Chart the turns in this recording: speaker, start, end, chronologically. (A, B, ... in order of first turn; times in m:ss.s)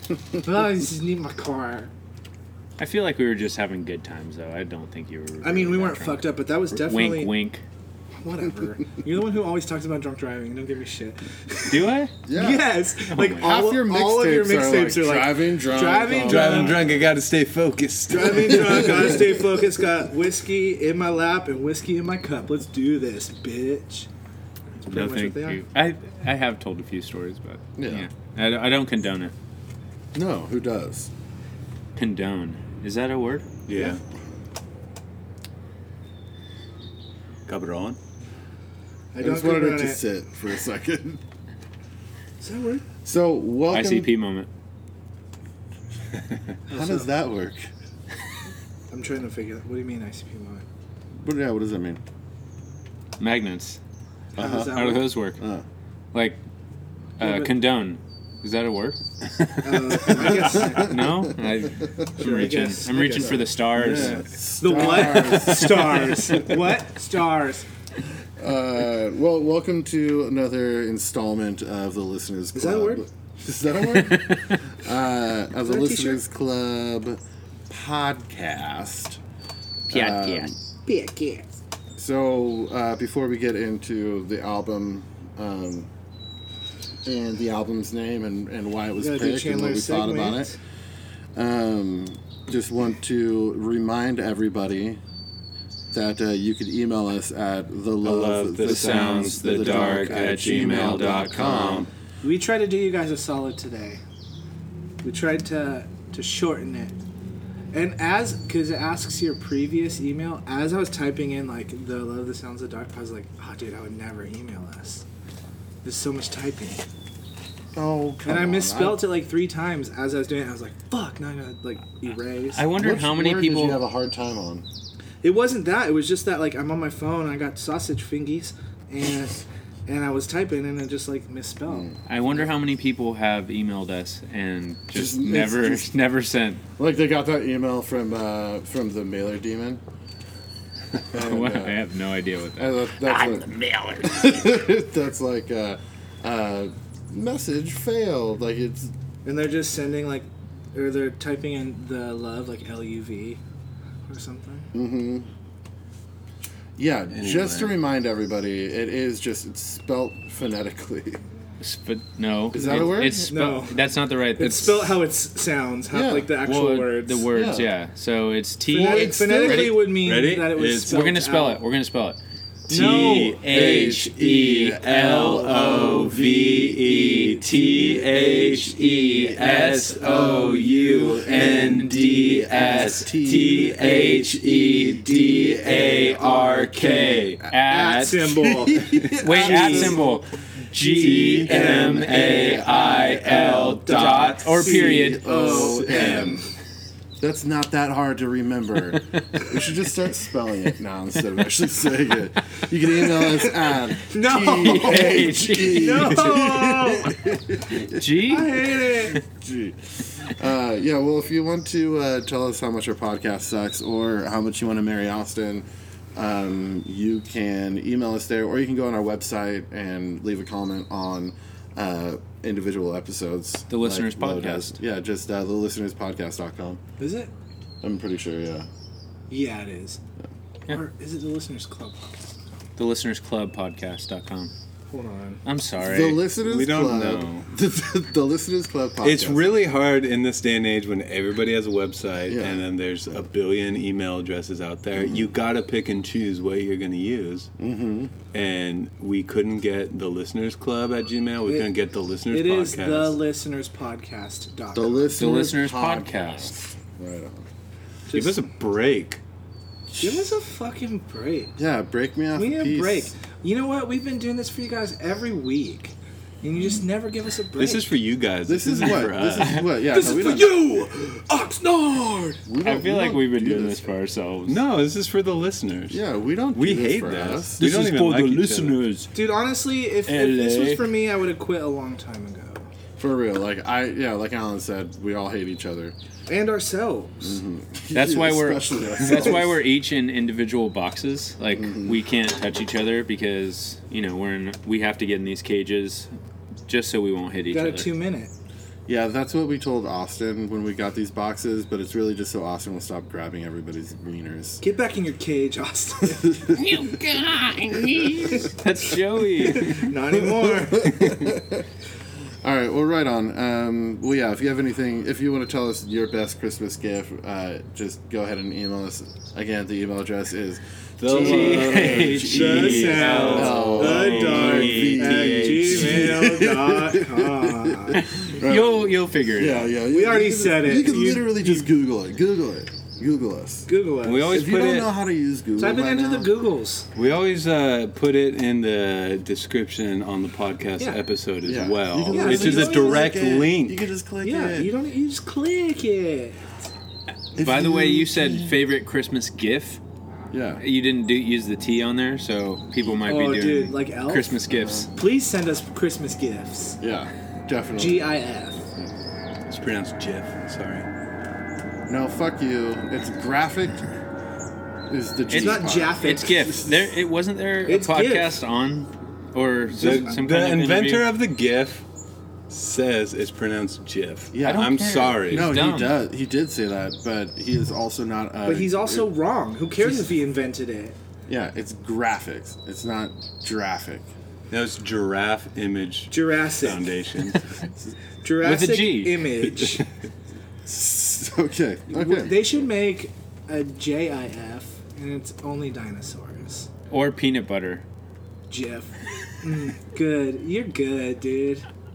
0:00.4-0:01.9 A
0:02.8-0:07.6 B
0:05.4-0:07.4 A
0:08.2-0:16.9 A
0:11.7-0:12.1 B
0:12.2-0:12.7 C
0:13.1-0:13.5 B
0:13.3-0:17.0 C
0:16.2-0:19.2 D
0:18.1-0:24.1 A
0:18.7-0:19.1 C
0:24.8-0:25.6 A
0:24.9-0:29.3 B
0:27.8-0:28.1 C
0:30.1-0:31.1 C
0:32.0-0:33.5 B
0:33.7-0:34.0 D
0:37.5-0:38.0 D
0:39.1-0:40.0 A
0:39.2-0:41.2 C
0:42.4-0:42.8 A
0:43.0-0:44.1 C
0:43.7-0:44.5 B
0:46.7-0:47.1 A
0:46.7-0:47.7 C
0:48.9-0:50.6 A
0:51.2-0:52.0 C
0:53.2-0:53.8 B
0:54.4-0:55.2 A
0:54.4-0:55.6 C
0:54.7-0:55.4 B
0:56.1-0:56.4 B
0:57.2-0:59.0 B
0:57.2-0:57.6 A
0:59.6-1:01.0 A
0:59.9-1:05.0 B
1:00.5-1:01.3 C
1:02.2-1:03.5 A
1:03.1-1:06.3 C
1:04.6-1:07.6 A
1:08.4-1:19.2 C
1:12.5-1:13.0 A
1:13.8-1:14.6 B
1:15.6-1:16.2 A
1:19.9-1:20.6 C
1:19.9-1:20.5 B
1:20.8-1:21.6 A
1:22.0-1:25.9 C
1:27.0-1:30.6 C
1:29.0-1:30.6 A
1:31.3-1:35.0 C
1:35.9-1:41.9 C
1:38.0-1:41.9 D
1:38.6-1:41.8 B
1:42.2-1:44.0 A
1:45.0-1:46.9 A
1:47.7-1:55.0 A
1:55.8-1:56.8 A
1:57.7-1:59.1 C
1:58.2-2:02.7 A
2:02.5-2:03.8 B
2:02.7-2:04.6 C
2:05.2-2:12.5 A
2:11.7-2:12.0 C
2:12.1-2:16.6 B
2:14.9-2:15.9 C
2:16.8-2:19.8 C
2:21.1-2:21.8 C
2:21.1-2:24.3 B
2:22.6-2:28.9 C
2:29.2-2:33.4 A
2:34.1-2:34.7 A
2:34.7-2:35.3 C
2:36.8-2:41.2 C
2:37.1-2:37.7 D
2:41.6-2:44.9 B
2:42.5-2:43.3 C
2:43.3-2:47.3 A
2:45.9-2:46.3 C
2:46.4-2:49.8 B
2:47.3-2:47.7 C
2:48.7-2:51.6 A
2:48.7-2:49.7 C
2:49.3-2:51.0 D
2:50.9-2:52.2 B
2:52.7-2:53.4 A
2:52.7-3:07.4 D
2:52.7-2:56.2 B
2:53.5-2:54.1 C
2:55.2-2:56.6 C
2:56.9-3:04.1 B
3:01.1-3:06.2 C
3:06.2-3:08.2 B
3:07.5-3:10.0 A
3:08.2-3:10.2 C
3:09.2-3:16.2 B
3:10.8-3:14.9 D
3:11.0-3:16.5 A
3:14.8-3:16.4 C
3:15.9-3:16.3 D
3:17.2-3:28.2 C
3:23.3-3:27.3 A
3:24.6-3:26.3 B
3:27.8-3:29.2 B
3:28.1-3:29.2 A
3:29.2-3:46.8 C
3:43.7-3:44.8 B
3:47.0-3:47.3 A
3:47.8-3:48.7 C
3:49.3-3:50.0 A
3:50.7-3:52.2 A
3:52.8-3:54.5 B
3:54.9-3:55.4 A
3:55.4-3:56.2 B
3:55.8-3:59.6 C
3:56.4-3:57.5 D
3:59.0-4:07.5 D
4:02.3-4:02.6 C
4:04.9-4:05.3 C
4:07.6-4:08.1 C
4:08.3-4:13.2 D
4:12.3-4:15.1 A
4:14.7-4:17.4 C
4:15.2-4:16.5 B
4:18.1-4:18.4 A
4:18.1-4:19.2 D
4:19.9-4:20.3 C
4:20.0-4:21.6 A
4:21.6-4:23.1 C
4:22.3-4:27.9 A
4:27.6-4:29.6 D
4:28.4-4:30.7 C
4:29.8-4:32.4 A
4:32.4-4:33.9 C
4:32.6-4:34.6 B
4:34.4-4:36.0 D
4:35.9-4:37.6 C
4:36.5-4:38.9 D
4:37.6-4:39.1 B
4:39.1-4:42.7 A
4:40.1-4:40.8 B
4:43.0-4:45.9 C
4:46.3-4:47.4 A
4:47.2-4:49.6 C
4:47.9-4:56.1 B
4:51.5-4:52.0 C
4:56.7-4:57.9 B
4:57.5-4:58.3 A
4:58.9-5:04.6 C
5:04.6-5:06.5 A
5:06.2-5:06.8 C
5:06.6-5:08.4 D
5:07.9-5:08.3 C
5:08.4-5:09.9 B
5:09.4-5:11.2 A
5:10.2-5:11.7 C
5:12.4-5:33.7 C
5:21.0-5:26.2 D
5:21.1-5:24.0 B
5:21.4-5:28.0 A
5:27.9-5:29.7 B
5:29.9-5:31.7 A
5:33.7-5:34.5 A
5:34.0-5:34.9 D
5:34.3-5:36.3 C
5:35.6-5:36.9 A
5:36.9-5:43.8 D
5:41.4-5:44.7 C
5:42.1-5:43.1 A
5:44.2-5:46.5 A
5:47.4-5:48.6 C
5:47.4-5:49.8 B
5:50.3-5:50.6 C
5:50.6-5:54.9 B
5:53.0-5:54.4 A
5:54.5-5:54.9 C
5:54.9-5:56.8 A
5:56.8-5:58.9 C
5:57.8-5:58.6 A
5:59.5-6:00.9 D
6:01.9-6:04.0 C
6:04.9-6:06.9 C
6:05.3-6:11.1 B
6:05.3-6:06.5 A
6:07.6-6:08.4 A
6:09.7-6:11.8 D
6:12.5-6:15.6 D
6:14.3-6:19.1 C
6:14.4-6:16.0 B
6:18.4-6:21.0 A
6:21.3-6:24.1 C
6:24.5-6:27.4 D
6:26.1-6:26.9 A
6:28.2-6:29.8 A
6:28.4-6:29.3 B
6:30.6-6:32.5 C
6:31.9-6:36.7 A
6:36.9-6:37.8 B
6:38.5-6:41.6 A